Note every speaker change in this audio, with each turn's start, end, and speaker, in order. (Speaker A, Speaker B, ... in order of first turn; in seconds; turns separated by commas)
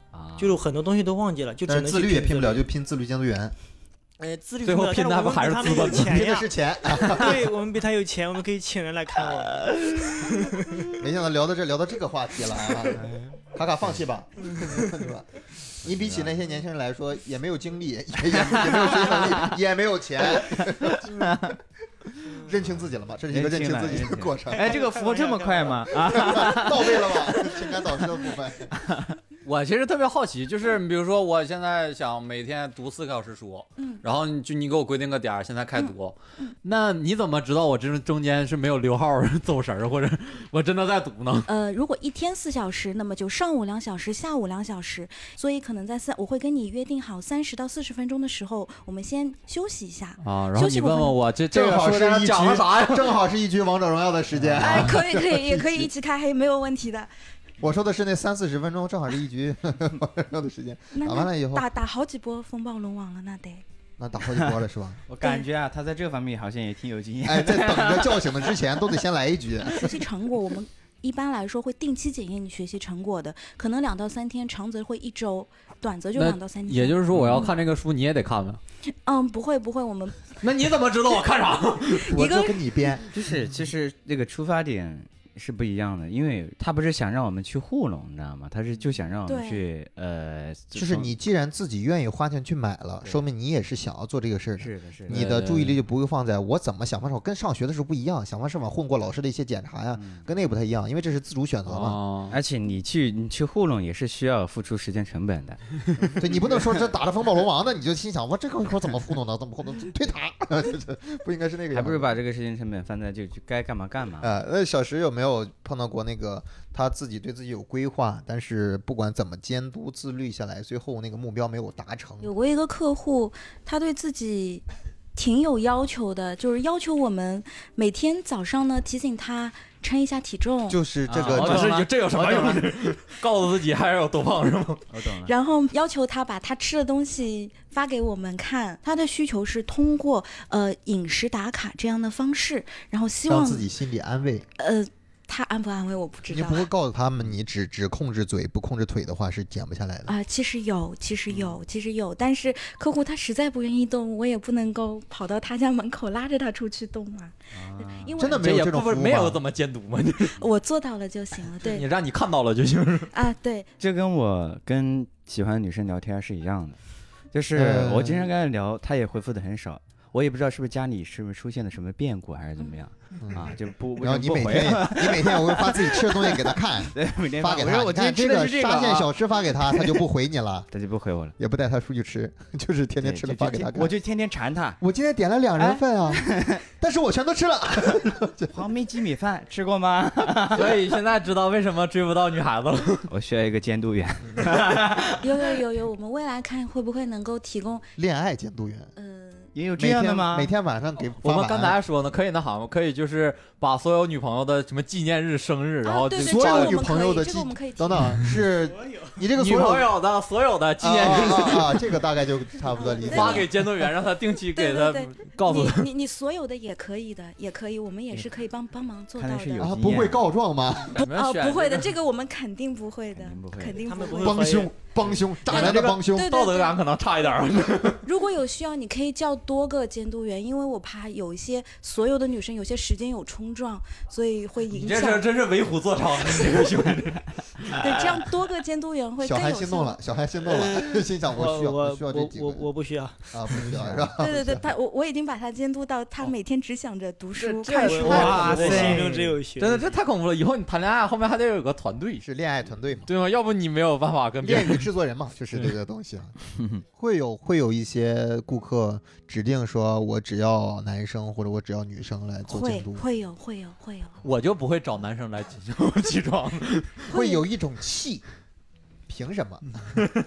Speaker A: 0.1-0.6, Speaker B: 0.4-2.6, Speaker C: 1.7-3.5, Speaker B: 4.2-10.9, Speaker D: 4.6-6.2, Speaker C: 5.9-7.5, Speaker C: 11.0-15.3, Speaker A: 12.9-13.4, Speaker B: 14.5-14.9, Speaker C: 15.8-21.1, Speaker A: 15.9-16.4, Speaker A: 18.3-19.5, Speaker A: 20.3-21.6, Speaker C: 22.3-24.8, Speaker A: 23.3-27.9, Speaker B: 24.5-25.9, Speaker C: 26.0-28.7, Speaker A: 28.8-29.1, Speaker D: 29.4-41.5, Speaker E: 33.8-34.0, Speaker E: 35.8-36.5, Speaker E: 41.5-51.2, Speaker D: 50.2-53.1, Speaker C: 51.5-55.9, Speaker A: 54.3-54.9, Speaker E: 54.6-57.1, Speaker C: 57.6-61.6, Speaker E: 60.9-63.6, Speaker C: 64.0-65.0, Speaker A: 64.3-64.5, Speaker A: 65.1-68.5, Speaker E: 65.2-65.5, Speaker C: 67.2-69.9, Speaker E: 69.7-77.5, Speaker D: 76.2-78.6, Speaker A: 77.1-77.4, Speaker E: 79.0-80.3, Speaker D: 80.4-82.1, Speaker E: 81.9-82.6, Speaker C: 82.0-83.0, Speaker A: 83.1-91.1, Speaker E: 89.3-89.6, Speaker C: 90.8-102.0, Speaker A: 94.6-95.2, Speaker D: 95.1-95.8, Speaker A: 100.0-100.3, Speaker D: 101.7-102.4, Speaker A: 102.3-106.8, Speaker C: 106.1-112.1, Speaker A: 111.7-114.3, Speaker C: 114.2-122.3, Speaker E: 122.2-124.6, Speaker E: 125.2-130.8, Speaker C: 130.7-132.6, Speaker A: 131.1-132.5, Speaker D: 131.1-134.8, Speaker A: 134.9-135.3, Speaker E: 135.2-143.7, Speaker C: 143.3-144.4, Speaker E: 144.6-146.7, Speaker C: 146.3-150.1, Speaker E: 150.1-158.4, Speaker A: 151.3-151.6, Speaker A: 157.5-158.2, Speaker C: 158.2-159.4, Speaker D: 158.3-160.4, Speaker E: 160.4-161.9, Speaker D: 161.6-163.1, Speaker E: 163.1-163.7, Speaker A: 163.8-166.8, Speaker A: 167.3-180.0, Speaker C: 167.5-168.3, Speaker C: 173.2-180.7, Speaker A: 180.7-181.3, Speaker C: 181.4-183.9, Speaker A: 183.0-184.8, Speaker C: 184.8-188.5, Speaker A: 185.6-186.6, Speaker A: 188.5-190.8, Speaker D: 190.5-193.1, Speaker A: 193.1-195.2, Speaker E: 195.2-197.9, Speaker C: 198.0-198.9, Speaker E: 198.9-199.5, Speaker A: 199.5-200.5, Speaker C: 199.8-201.8, Speaker D: 201.2-206.8, Speaker E: 205.8-208.2, Speaker C: 206.2-209.9, Speaker D: 209.4-211.9, Speaker C: 210.8-213.5, Speaker E: 212.7-213.5, Speaker D: 213.1-215.9, Speaker E: 214.5-219.7, Speaker A: 219.2-220.2, Speaker C: 219.6-221.0, Speaker D: 220.9-221.9, Speaker E: 221.0-224.6, Speaker A: 223.1-223.8, Speaker B: 223.8-224.7, Speaker C: 224.2-226.3, Speaker D: 225.4-228.0, Speaker E: 225.5-226.8, Speaker E: 228.0-235.3, Speaker D: 234.7-237.9, Speaker E: 237.7-240.0, Speaker C: 239.2-242.7, Speaker B: 240.8-243.7, Speaker C: 243.3-244.6, Speaker E: 244.2-248.9, Speaker D: 247.4-252.2, Speaker B: 247.8-249.9, Speaker A: 248.1-249.1, Speaker C: 252.2-253.1, Speaker D: 253.1-254.9, Speaker C: 254.4-256.3, Speaker A: 256.6-256.8, Speaker C: 257.0-263.0, Speaker E: 262.5-264.1, Speaker D: 264.2-267.0, Speaker C: 267.1-268.2, Speaker E: 267.1-267.4, Speaker C: 269.1-269.6